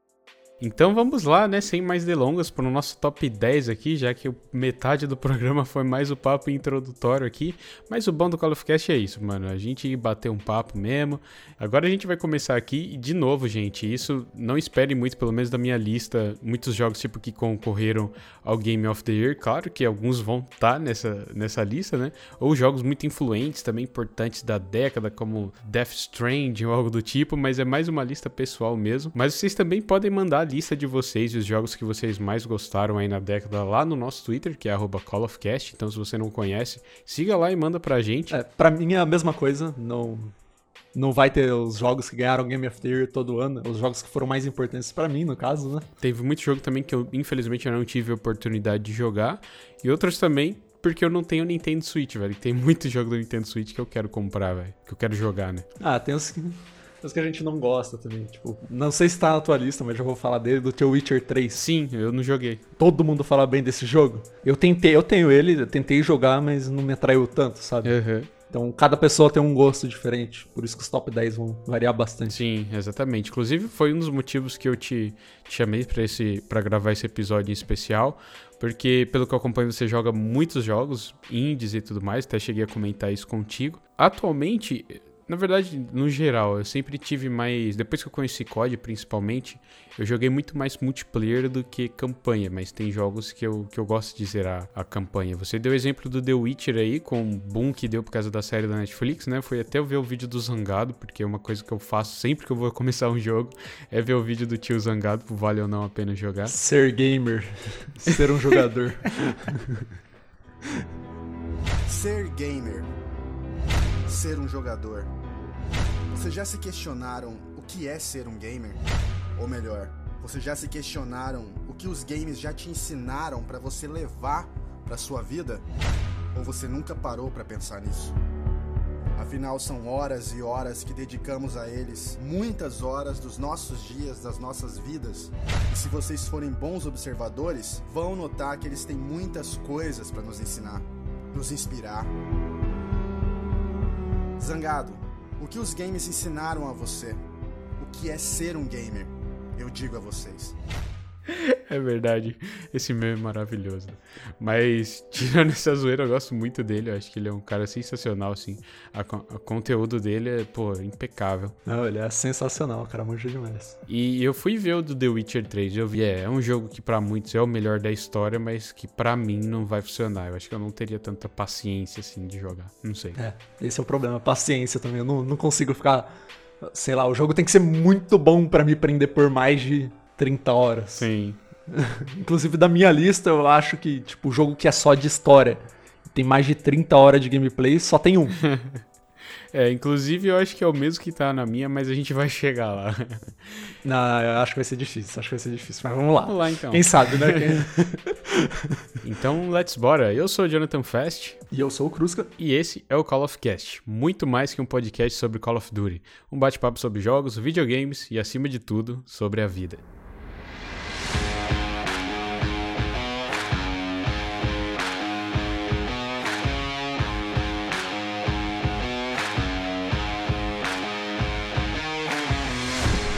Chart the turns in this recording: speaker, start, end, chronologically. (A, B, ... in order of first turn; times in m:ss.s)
0:00.6-0:38.4 A
0:38.3-0:40.3 B
0:40.9-0:45.9 B
0:46.0-0:55.7 A
0:55.8-1:01.6 B
1:01.6-1:02.6 A
1:02.8-1:07.9 B
1:07.8-1:08.3 A
1:08.5-1:12.4 B
1:12.3-1:46.6 A
1:46.5-1:49.8 B
1:51.9-1:52.9 C
1:54.0-1:55.1 C
1:56.1-1:58.8 C
1:59.4-2:05.6 C
2:06.3-2:08.1 C
2:09.2-2:22.1 C
2:24.4-2:27.2 C
2:27.8-2:30.6 C
2:31.3-2:41.6 A
2:41.6-2:43.8 B
2:43.9-2:53.2 A
2:53.2-3:01.1 B
3:01.0-3:01.4 A
3:01.7-3:08.4 B
3:08.5-3:08.8 A
3:09.5-3:13.3 A
3:13.8-3:18.8 B
3:16.2-3:17.6 A
3:19.0-3:21.4 A
3:21.5-3:22.3 B
3:22.4-3:29.8 A